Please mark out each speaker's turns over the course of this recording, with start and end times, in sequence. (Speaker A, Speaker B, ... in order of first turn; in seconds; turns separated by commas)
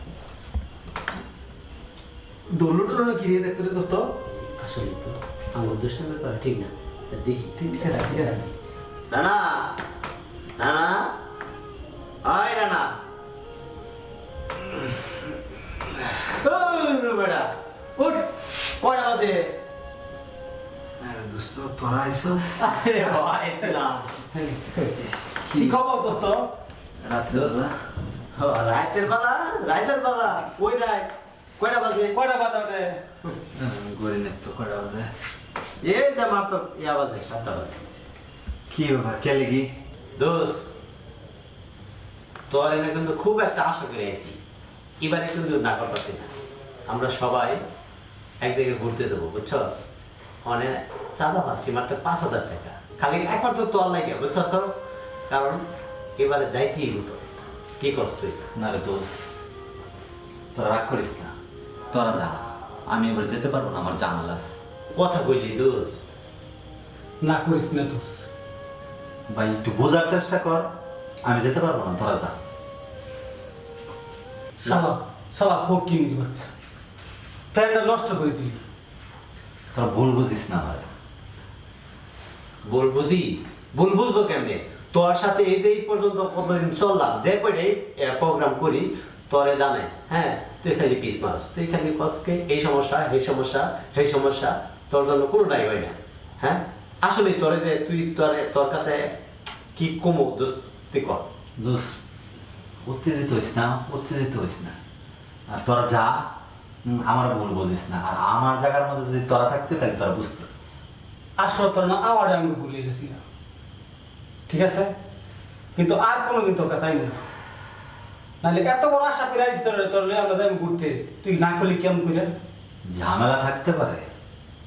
Speaker A: 2.5-4.1, Speaker B: 4.3-8.5, Speaker A: 7.7-8.4, Speaker B: 9.1-9.8, Speaker B: 10.6-11.1, Speaker B: 12.2-12.9, Speaker B: 16.3-19.6, Speaker C: 21.0-22.6, Speaker B: 22.6-24.2, Speaker A: 24.4-24.8, Speaker C: 25.5-25.8, Speaker A: 25.5-26.5, Speaker C: 27.0-27.7, Speaker B: 28.4-32.2, Speaker A: 32.1-33.0, Speaker C: 33.5-35.1, Speaker B: 35.8-37.8, Speaker C: 38.7-39.7, Speaker B: 40.2-40.8, Speaker B: 42.5-44.4, Speaker B: 45.0-46.3, Speaker B: 46.9-47.6, Speaker B: 48.4-49.8, Speaker B: 50.5-54.7, Speaker B: 55.3-55.6, Speaker B: 56.2-58.5, Speaker C: 58.5-59.2, Speaker C: 60.5-61.3, Speaker C: 61.9-64.5, Speaker B: 65.0-66.0, Speaker A: 67.2-68.2, Speaker C: 69.3-70.7, Speaker C: 71.3-72.3, Speaker A: 74.6-76.5, Speaker A: 77.5-78.6, Speaker C: 79.8-80.9, Speaker B: 82.7-99.1, Speaker B: 99.8-101.2, Speaker C: 101.6-102.0, Speaker C: 102.9-104.8, Speaker C: 105.5-106.2, Speaker C: 106.9-110.5, Speaker A: 111.4-113.2, Speaker A: 114.5-114.9, Speaker A: 115.8-117.2, Speaker A: 118.4-122.3, Speaker C: 122.9-124.1